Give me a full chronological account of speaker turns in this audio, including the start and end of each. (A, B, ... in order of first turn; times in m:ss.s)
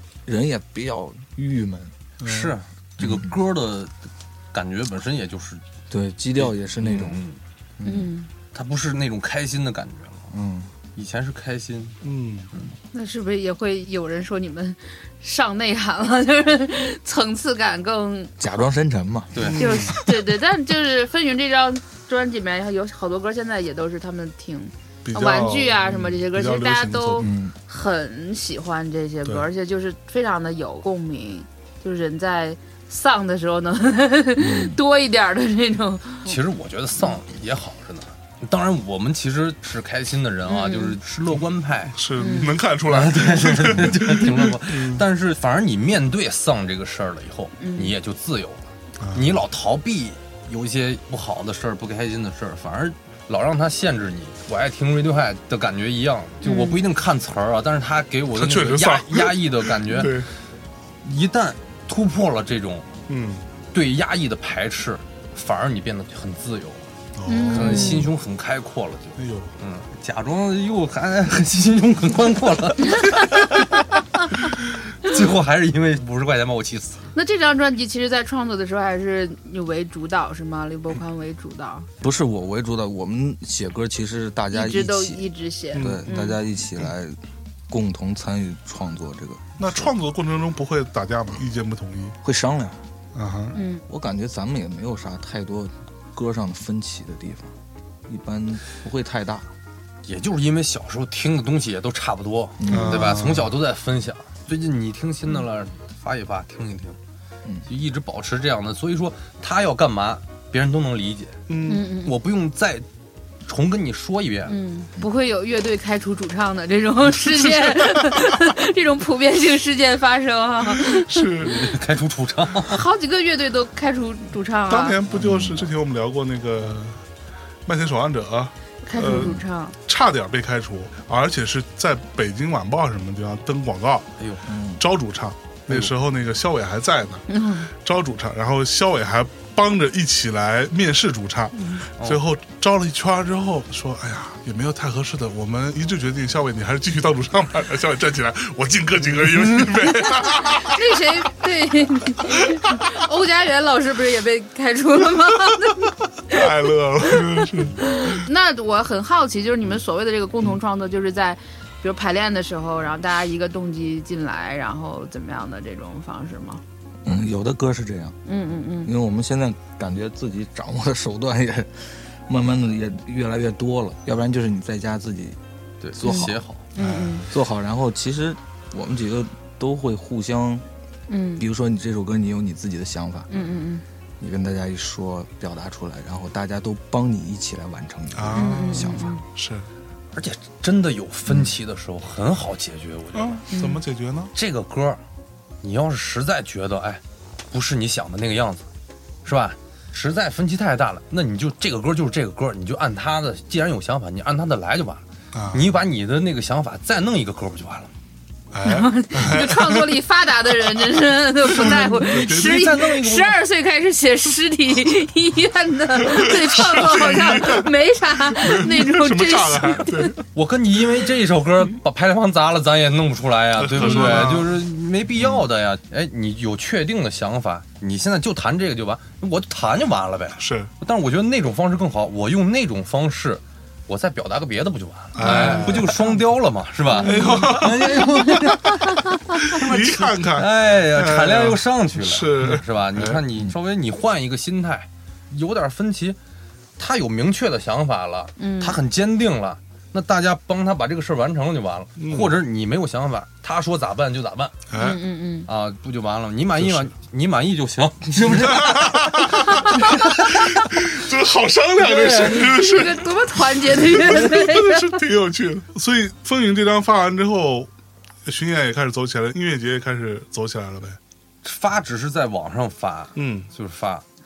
0:00.2-0:01.9 A
0:02.2-0:02.5 B
0:02.2-0:03.9 C
0:03.0-0:03.3 A
0:04.5-0:05.6 C
0:05.9-0:07.2 A
0:06.4-0:07.4 C
0:07.8-0:08.1 A
0:07.8-0:08.3 D
0:08.5-0:10.3 C
0:10.3-0:10.7 A
0:11.0-0:12.0 C
0:12.0-0:12.5 B
0:12.9-0:18.3 D
0:18.4-0:19.5 A
0:19.3-0:20.0 C
0:19.4-0:20.0 B
0:19.6-0:36.4 D
0:25.0-0:27.3 B
0:27.2-0:27.5 A
0:34.4-0:34.8 A
0:36.2-0:42.0 C
0:40.4-0:41.0 D
0:41.9-0:45.0 B
0:42.2-0:42.6 D
0:42.8-1:00.3 C
0:47.6-0:47.9 D
0:49.0-0:49.4 B
0:56.4-0:56.8 D
0:58.4-1:00.3 B
1:01.0-1:02.9 C
1:03.1-1:03.4 B
1:03.7-1:06.9 C
1:07.2-1:08.0 B
1:07.2-1:08.1 D
1:07.5-1:13.9 C
1:09.2-1:09.5 B
1:15.0-1:17.0 C
1:17.1-1:21.9 D
1:22.0-1:27.2 A
1:24.5-1:26.4 D
1:25.7-1:26.1 B
1:27.7-1:29.9 A
1:29.6-1:32.2 B
1:32.2-1:32.8 A
1:33.1-1:33.6 B
1:33.5-1:33.8 D
1:33.9-1:37.5 A
1:38.1-1:39.5 A
1:40.0-1:47.0 C
1:42.6-1:43.2 A
1:42.7-1:43.5 B
1:47.7-1:51.4 C
1:51.5-1:51.8 B
1:51.6-1:52.2 D
1:52.0-1:52.8 C
1:53.4-1:54.6 C
1:54.5-2:01.5 D
1:57.3-1:58.5 B
2:00.8-2:01.7 B
2:01.4-2:02.8 C
2:02.6-2:05.0 D
2:04.7-2:07.0 B
2:05.1-2:05.7 A
2:07.6-2:14.1 B
2:08.8-2:09.8 D
2:14.2-2:14.4 C
2:14.4-2:14.8 A
2:14.8-2:30.8 B
2:17.3-2:17.7 D
2:30.4-2:36.5 D
2:36.3-2:38.2 B
2:37.1-2:46.6 D
2:47.0-2:48.2 A
2:48.2-2:48.9 D
2:48.8-2:55.4 A
2:55.8-2:56.6 C
2:56.0-3:00.6 A
2:56.0-2:57.3 D
2:56.8-2:57.2 B
3:01.1-3:01.4 D
3:01.4-3:03.4 A
3:03.3-3:03.8 D
3:04.2-3:09.2 A
3:08.1-3:09.7 B
3:08.3-3:09.2 D
3:10.1-3:13.4 C
3:13.1-3:14.3 B
3:13.5-3:13.8 D
3:14.3-3:15.0 C
3:15.6-3:18.6 C
3:19.2-3:27.9 C
3:25.3-3:25.7 B
3:28.5-3:29.9 B
3:28.6-3:40.2 D
3:31.4-3:32.8 B
3:32.0-3:33.4 C
3:36.0-3:37.7 B
3:38.3-3:40.2 B
3:40.3-4:06.2 C
3:43.6-3:44.6 B
3:50.4-3:50.7 B
3:55.1-3:56.2 B
3:56.9-3:59.0 D
3:57.0-3:58.2 B
3:59.4-4:03.2 B
4:06.8-4:14.6 C
4:08.4-4:08.8 D
4:12.0-4:12.4 B
4:14.7-4:15.0 B
4:14.7-4:15.5 D
4:15.5-4:20.5 C
4:16.6-4:16.9 B
4:18.2-4:27.7 B
4:21.8-4:25.0 D
4:22.0-4:22.4 C
4:28.2-4:31.0 B
4:31.4-4:34.0 C
4:33.1-4:33.5 B